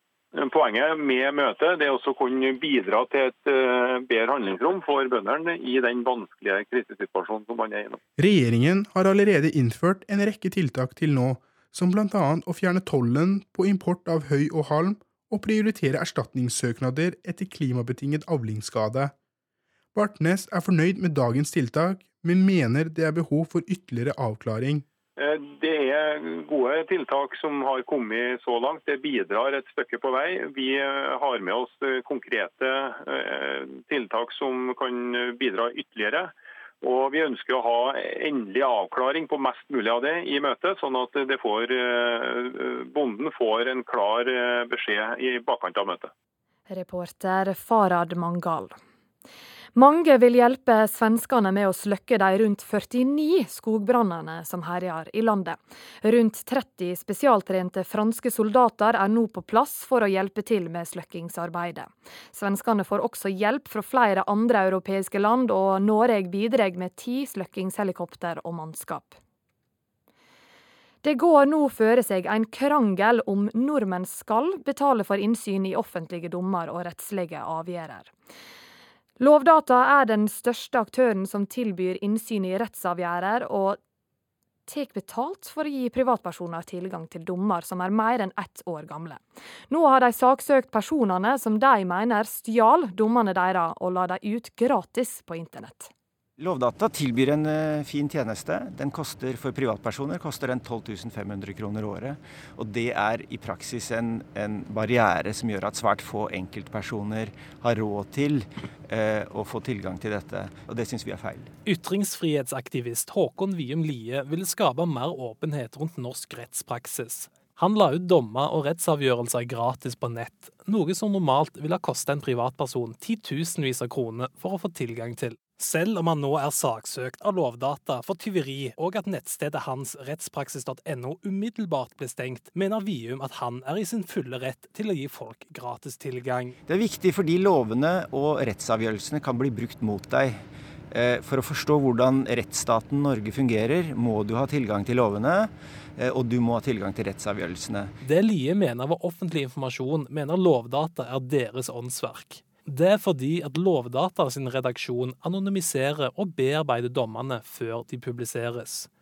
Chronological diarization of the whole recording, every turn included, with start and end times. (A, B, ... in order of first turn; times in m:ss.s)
0:00.3-0:08.0 A
0:08.2-0:19.1 B
0:19.9-0:24.8 B
0:25.2-0:46.1 A
0:46.7-0:48.8 C
0:49.7-1:09.2 C
1:11.0-1:18.1 C
1:19.2-1:23.8 C
1:24.7-1:35.9 C
1:36.4-1:51.5 D
1:51.6-2:16.5 E
2:16.7-2:27.9 D
2:28.0-2:38.9 E